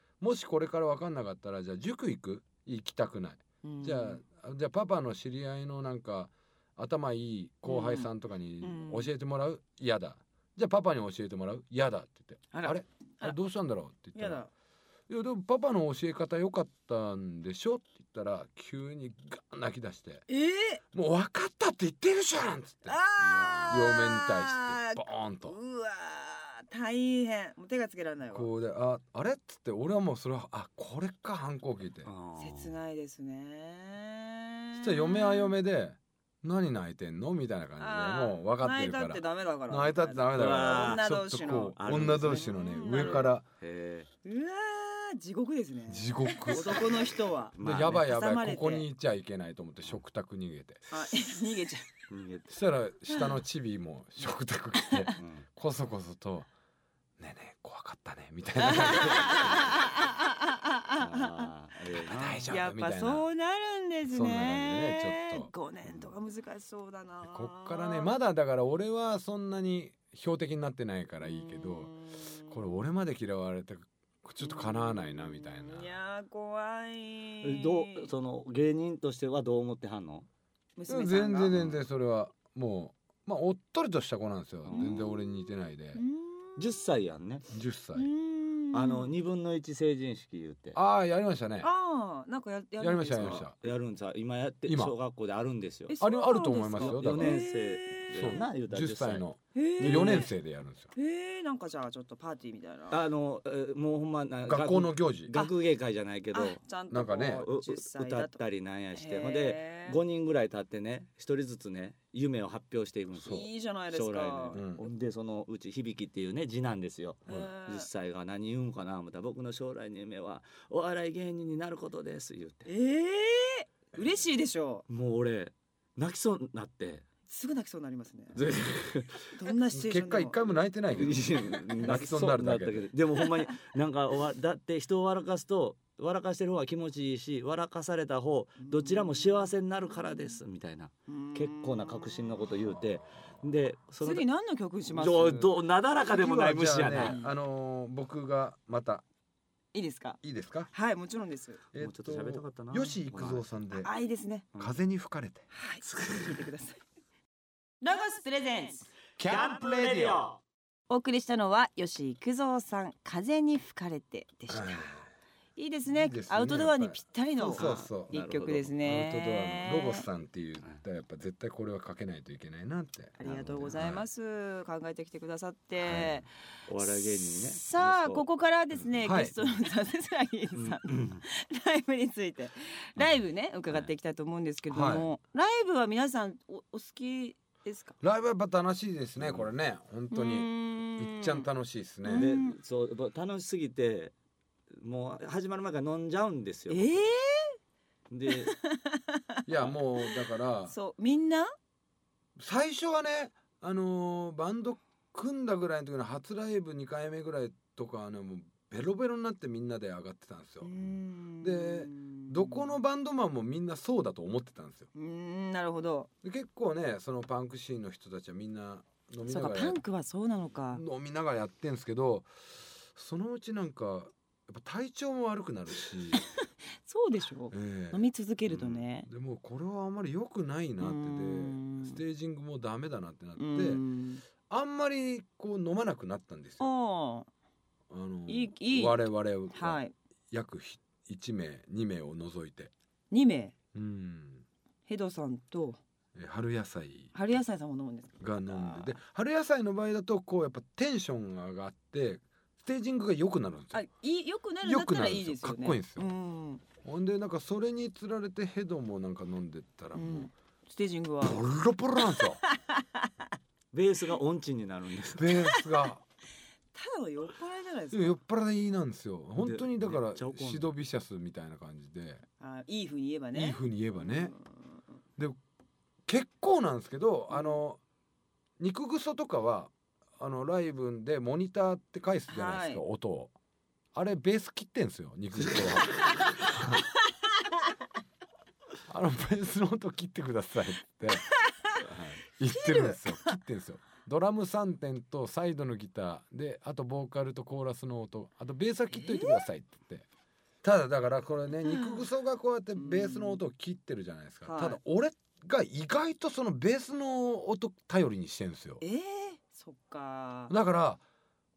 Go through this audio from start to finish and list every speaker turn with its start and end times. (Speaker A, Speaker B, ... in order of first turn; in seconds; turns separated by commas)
Speaker A: 0.2-14.4, Speaker B: 3.6-4.2, Speaker B: 7.7-8.1, Speaker B: 8.6-9.1, Speaker B: 12.5-13.4, Speaker B: 14.2-14.5, Speaker A: 15.1-20.2, Speaker B: 20.3-20.8, Speaker A: 20.9-23.0, Speaker B: 22.9-28.5, Speaker C: 23.2-23.9, Speaker A: 23.7-25.6, Speaker A: 28.3-32.1, Speaker C: 32.0-32.7, Speaker B: 32.4-35.5, Speaker A: 34.8-43.5, Speaker B: 37.8-43.3, Speaker C: 40.3-41.0, Speaker C: 41.8-44.1, Speaker B: 44.2-48.9, Speaker A: 45.9-46.9, Speaker C: 47.6-48.0, Speaker A: 47.6-50.8, Speaker B: 50.9-51.9, Speaker C: 52.1-52.6, Speaker A: 52.5-56.5, Speaker C: 55.2-55.5, Speaker A: 57.2-59.7, Speaker B: 58.6-61.5, Speaker C: 61.0-62.5, Speaker A: 62.1-63.3, Speaker B: 62.5-68.1, Speaker A: 64.1-65.5, Speaker A: 67.2-71.9, Speaker B: 71.2-72.7, Speaker A: 72.5-76.0, Speaker B: 74.4-78.1, Speaker C: 77.4-80.3, Speaker B: 80.8-81.5, Speaker A: 80.9-86.0, Speaker C: 81.5-81.8, Speaker C: 84.7-85.1, Speaker B: 84.7-85.1, Speaker B: 86.0-86.6, Speaker C: 86.6-87.5, Speaker A: 87.5-88.1, Speaker B: 88.0-89.1, Speaker C: 88.7-90.8, Speaker A: 90.7-91.7, Speaker B: 91.6-93.5, Speaker A: 92.8-93.5, Speaker C: 93.2-95.9, Speaker A: 94.7-95.0, Speaker B: 95.9-98.5, Speaker A: 96.0-97.4, Speaker C: 96.8-99.2, Speaker A: 98.1-100.9, Speaker B: 99.5-100.3, Speaker C: 99.8-100.3, Speaker B: 100.9-103.0, Speaker C: 102.9-106.6, Speaker A: 104.5-105.3, Speaker B: 106.3-108.4, Speaker A: 106.9-107.5, Speaker C: 107.4-122.7, Speaker B: 108.9-110.0, Speaker B: 113.2-114.6, Speaker A: 114.5-114.8, Speaker B: 117.3-117.9, Speaker B: 122.7-124.8, Speaker C: 124.9-127.0, Speaker B: 127.3-128.4, Speaker C: 128.3-129.3, Speaker B: 129.3-130.5, Speaker A: 129.7-132.9, Speaker C: 130.9-144.2, Speaker B: 138.6-139.5, Speaker B: 141.1-142.4, Speaker A: 142.8-143.3, Speaker B: 144.0-145.5, Speaker C: 144.9-147.2, Speaker A: 146.1-149.0, Speaker B: 146.9-147.3, Speaker B: 149.7-150.2, Speaker A: 150.2-150.7, Speaker B: 150.7-151.6, Speaker A: 151.7-153.9, Speaker C: 151.8-153.4, Speaker B: 153.7-154.5, Speaker A: 154.6-155.5, Speaker B: 155.5-156.8, Speaker C: 155.8-156.4, Speaker B: 157.8-158.9, Speaker C: 159.2-160.4, Speaker B: 160.9-165.0, Speaker A: 164.5-165.1, Speaker B: 165.6-170.1, Speaker A: 165.9-168.2, Speaker C: 167.4-168.8, Speaker A: 168.8-174.0, Speaker B: 173.2-176.3, Speaker A: 175.8-176.1, Speaker C: 176.7-178.2, Speaker B: 176.8-188.0, Speaker A: 179.0-179.3, Speaker C: 180.6-181.2, Speaker A: 184.7-185.1, Speaker A: 188.0-192.3, Speaker C: 189.2-189.5, Speaker B: 190.1-191.5, Speaker B: 192.0-192.6, Speaker C: 192.2-194.1, Speaker C: 194.8-197.0, Speaker B: 196.7-197.6, Speaker C: 198.1-198.6, Speaker B: 198.3-199.4, Speaker A: 199.5-200.7, Speaker B: 200.7-201.5, Speaker A: 202.4-210.7, Speaker B: 210.6-212.7, Speaker A: 211.4-214.9, Speaker B: 214.9-216.1, Speaker A: 216.2-219.8, Speaker B: 219.3-220.8, Speaker A: 220.7-222.3, Speaker A: 222.9-226.2, Speaker B: 226.9-229.1, Speaker A: 227.5-233.8, Speaker B: 230.8-232.0, Speaker B: 233.4-234.2, Speaker A: 234.5-236.7, Speaker B: 236.6-237.3, Speaker A: 237.9-242.7, Speaker B: 238.3-239.9, Speaker B: 243.1-243.5, Speaker A: 243.7-244.4, Speaker B: 244.9-245.8, Speaker A: 246.2-247.1, Speaker B: 247.1-249.0, Speaker A: 248.2-253.8, Speaker B: 253.7-256.6, Speaker A: 254.6-256.1, Speaker A: 256.8-260.3, Speaker B: 259.9-261.4, Speaker A: 261.2-262.4, Speaker B: 262.5-263.1, Speaker C: 263.7-265.3, Speaker A: 265.2-266.0, Speaker B: 266.7-268.2, Speaker A: 267.9-272.2, Speaker C: 269.4-270.7, Speaker B: 272.4-274.5, Speaker A: 273.3-274.3, Speaker A: 276.1-277.8, Speaker B: 277.3-277.6, Speaker A: 278.6-283.3, Speaker B: 282.3-282.8, Speaker A: 283.9-286.6, Speaker A: 288.9-291.3, Speaker C: 291.8-292.2, Speaker A: 292.3-300.1, Speaker B: 292.5-293.3, Speaker B: 298.9-299.4, Speaker A: 300.6-308.8, Speaker B: 301.7-302.1, Speaker B: 302.8-303.4, Speaker B: 304.4-304.8, Speaker B: 308.8-310.5, Speaker A: 310.5-311.0